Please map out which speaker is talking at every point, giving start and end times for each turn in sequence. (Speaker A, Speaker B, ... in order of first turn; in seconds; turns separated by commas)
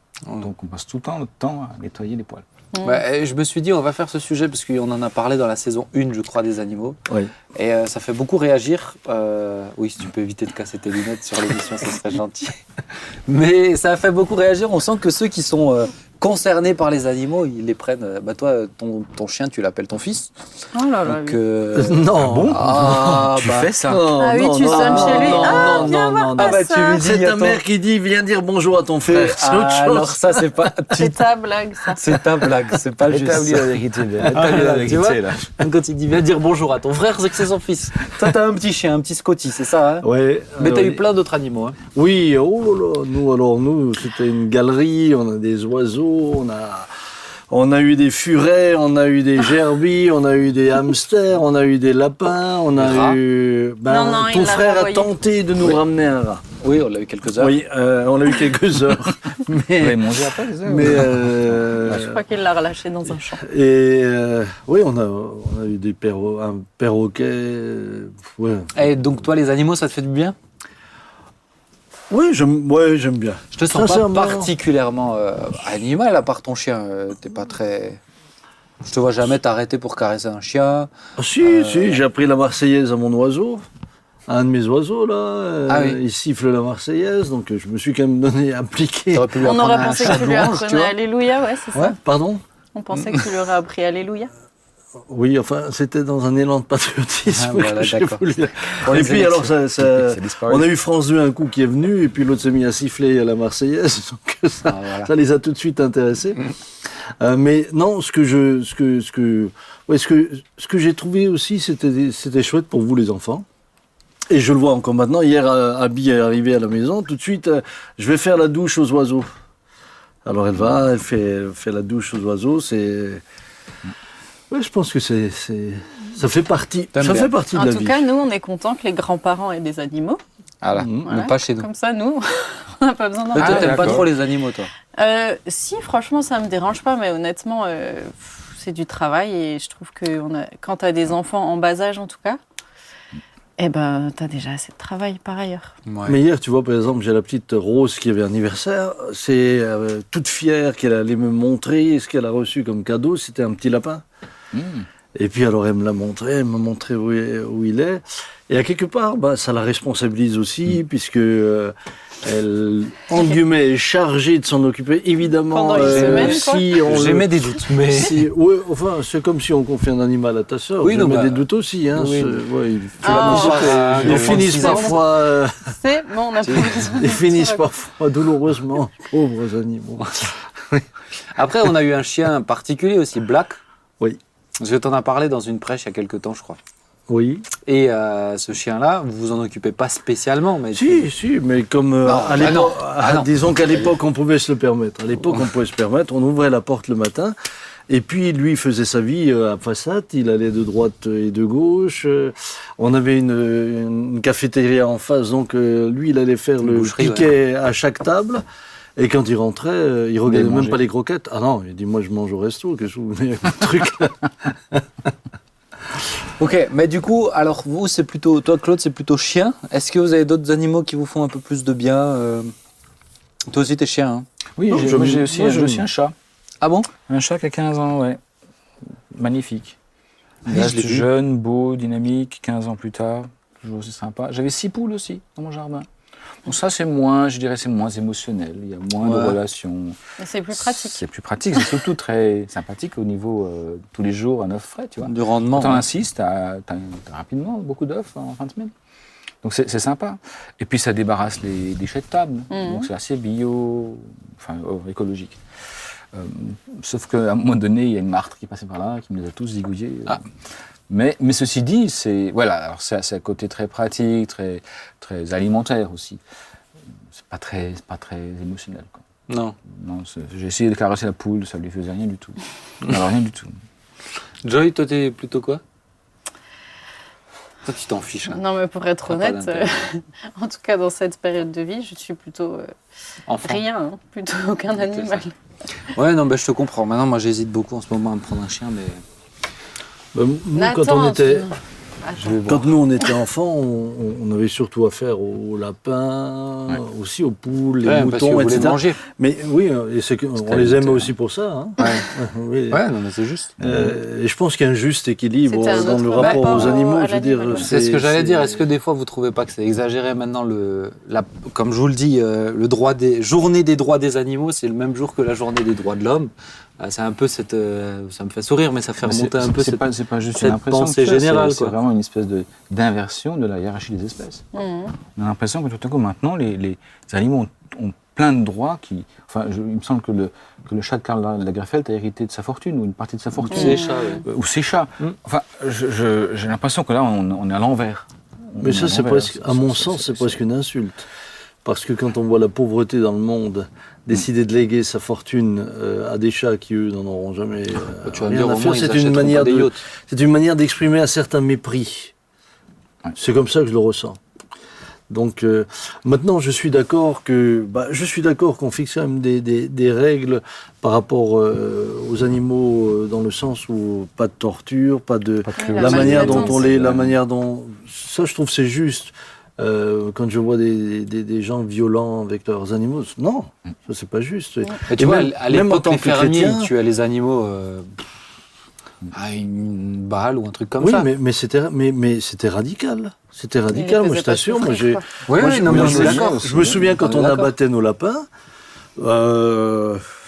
Speaker A: 0.4-2.4, Speaker B: 2.7-3.0, Speaker C: 2.8-7.0, Speaker C: 7.5-12.6, Speaker C: 13.3-20.3, Speaker B: 20.7-21.4, Speaker C: 21.1-23.2, Speaker D: 21.7-30.7, Speaker A: 22.2-24.1, Speaker B: 24.2-27.0, Speaker C: 24.7-27.6, Speaker C: 29.1-31.1, Speaker B: 30.9-32.0, Speaker C: 31.9-40.1, Speaker A: 33.1-35.5, Speaker D: 40.0-41.0, Speaker C: 40.6-41.8, Speaker D: 41.9-46.9, Speaker D: 47.5-56.4, Speaker C: 52.8-53.2, Speaker B: 53.9-55.1, Speaker C: 56.6-57.6, Speaker D: 57.3-62.2, Speaker A: 59.8-61.9, Speaker B: 61.8-63.4, Speaker D: 63.4-68.7, Speaker C: 68.7-70.3, Speaker D: 72.1-74.5, Speaker C: 73.5-78.0, Speaker C: 78.8-80.9, Speaker D: 81.2-83.7, Speaker C: 81.4-82.0, Speaker D: 84.3-90.9, Speaker C: 85.7-86.0, Speaker C: 89.1-90.9, Speaker B: 89.4-92.0, Speaker D: 92.0-92.4, Speaker B: 92.7-94.3, Speaker D: 95.1-113.5, Speaker C: 97.3-99.5, Speaker A: 99.8-100.7, Speaker C: 104.7-105.1, Speaker D: 114.3-119.3, Speaker D: 120.2-123.2, Speaker D: 124.5-128.0, Speaker C: 126.9-127.3, Speaker B: 127.5-130.2, Speaker C: 130.6-131.7, Speaker D: 130.8-131.1, Speaker B: 131.1-134.0, Speaker C: 133.3-134.7, Speaker A: 133.4-134.1, Speaker B: 134.9-142.4, Speaker B: 143.6-145.7, Speaker C: 145.9-146.2, Speaker D: 146.1-154.0, Speaker A: 154.5-154.9, Speaker D: 155.1-175.7, Speaker B: 165.5-166.8, Speaker C: 165.8-168.2, Speaker C: 170.8-172.4, Speaker C: 173.0-175.1, Speaker B: 173.0-173.8, Speaker A: 174.0-174.4, Speaker B: 174.4-174.9, Speaker B: 175.7-177.6, Speaker C: 176.4-176.8, Speaker D: 176.6-180.8, Speaker C: 181.4-183.6, Speaker C: 184.6-186.6, Speaker D: 187.1-187.5, Speaker C: 187.6-191.1, Speaker D: 190.7-197.3, Speaker C: 192.1-193.9, Speaker D: 197.9-208.4, Speaker C: 206.6-207.3, Speaker D: 209.0-214.8, Speaker A: 210.2-210.8, Speaker C: 216.4-222.5, Speaker C: 223.5-224.2, Speaker A: 224.6-226.1, Speaker D: 224.7-225.8, Speaker C: 226.6-226.9, Speaker A: 227.1-228.2, Speaker A: 229.1-229.8, Speaker A: 230.4-235.9, Speaker C: 230.5-231.1, Speaker A: 236.4-240.0, Speaker C: 239.0-239.4, Speaker B: 240.2-241.0, Speaker A: 240.5-248.7, Speaker C: 245.0-245.8, Speaker A: 249.4-255.4, Speaker B: 252.5-252.9, Speaker A: 256.1-260.2, Speaker A: 260.9-266.2, Speaker A: 267.1-269.0, Speaker C: 269.3-269.6, Speaker A: 269.6-273.5, Speaker C: 274.4-275.6, Speaker C: 277.6-278.4, Speaker B: 278.3-282.7, Speaker C: 279.1-279.8, Speaker C: 283.3-283.6, Speaker B: 283.4-285.3, Speaker C: 284.9-285.2, Speaker C: 285.9-289.0, Speaker D: 290.1-291.5, Speaker B: 290.5-292.5, Speaker C: 292.2-292.6, Speaker D: 292.5-302.8, Speaker C: 297.8-299.0, Speaker C: 300.4-301.1, Speaker C: 301.8-302.1, Speaker C: 302.7-303.5, Speaker A: 303.6-304.0, Speaker D: 303.6-308.6, Speaker B: 305.5-307.7, Speaker C: 305.7-306.8, Speaker C: 307.6-319.8, Speaker A: 319.0-324.4, Speaker C: 320.4-321.8, Speaker B: 324.5-324.9, Speaker A: 325.1-340.4, Speaker C: 333.5-334.2, Speaker B: 333.5-334.2, Speaker D: 338.6-341.1, Speaker D: 341.6-352.1, Speaker C: 347.9-349.8, Speaker D: 353.1-354.2, Speaker D: 355.1-376.7, Speaker A: 365.4-367.2, Speaker B: 365.6-366.7, Speaker C: 374.9-378.0, Speaker C: 379.1-381.1, Speaker D: 380.8-388.3, Speaker B: 383.7-385.0, Speaker C: 385.3-386.4, Speaker A: 385.6-387.0, Speaker C: 387.0-387.5, Speaker D: 389.0-390.0